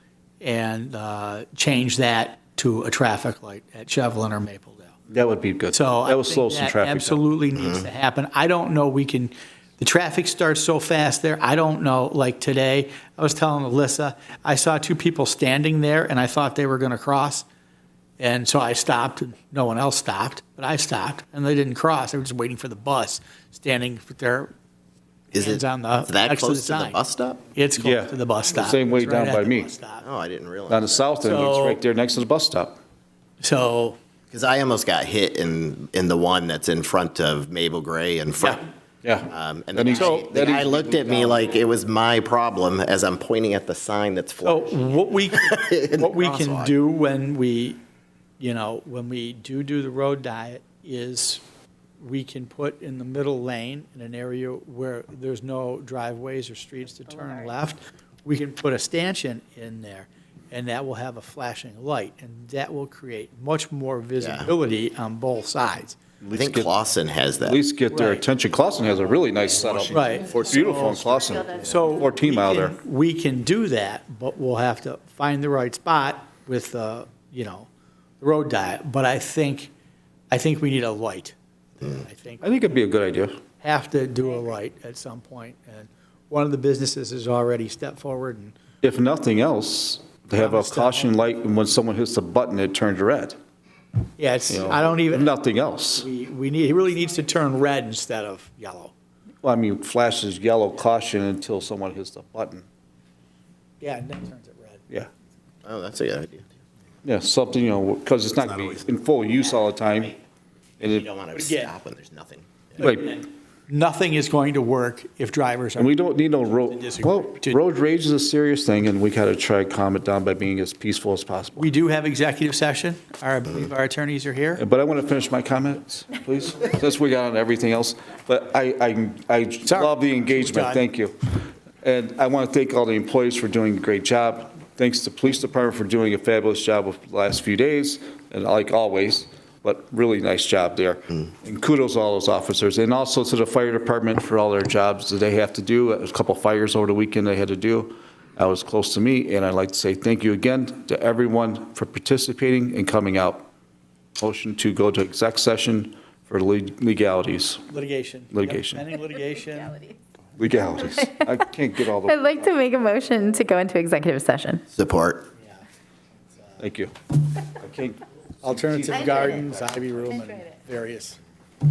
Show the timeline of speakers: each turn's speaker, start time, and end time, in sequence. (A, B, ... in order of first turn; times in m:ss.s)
0:00.4-0:05.0 A
0:05.1-0:07.2 B
0:05.7-0:17.4 A
0:07.5-0:07.8 C
0:18.2-0:24.5 A
0:25.3-0:27.4 C
0:25.3-0:27.0 A
0:27.5-0:30.0 A
0:27.8-0:29.7 B
0:30.0-0:31.0 C
0:30.7-0:32.8 B
0:31.2-0:31.8 A
0:33.4-0:34.0 A
0:34.3-0:38.6 C
0:38.4-0:41.4 B
0:39.3-0:46.7 C
0:39.9-0:40.3 A
0:44.4-0:47.8 A
0:48.4-0:51.4 A
0:52.0-1:06.0 A
1:04.2-1:04.5 C
1:06.2-1:06.7 B
1:06.3-1:07.6 C
1:07.4-1:12.8 B
1:07.9-1:08.2 A
1:09.9-1:17.7 A
1:18.2-1:19.7 A
1:20.3-1:22.5 A
1:22.4-1:23.4 B
1:23.6-1:28.6 A
1:28.8-1:33.4 B
1:30.4-1:31.1 A
1:34.2-1:35.3 A
1:34.5-1:36.0 B
1:35.9-1:38.9 A
1:39.4-1:42.6 B
1:43.8-1:44.8 A
1:45.6-1:46.5 C
1:47.0-1:50.1 B
1:48.3-1:49.0 C
1:50.8-1:52.6 C
1:50.8-1:51.0 B
1:51.3-1:51.7 A
1:52.8-1:56.0 A
1:52.8-1:53.1 B
1:55.8-2:01.7 B
1:56.5-1:57.6 A
2:01.6-2:04.6 A
2:04.6-2:11.1 B
2:09.7-2:10.8 A
2:11.8-2:33.5 B
2:34.2-2:37.6 B
2:37.7-2:39.9 A
2:38.3-2:38.8 B
2:40.4-2:42.5 B
2:42.0-2:44.6 D
2:44.7-2:45.3 C
2:45.4-2:45.6 A
2:46.3-2:46.6 A
2:46.6-2:46.9 B
2:47.6-2:50.0 B
2:48.4-2:51.2 A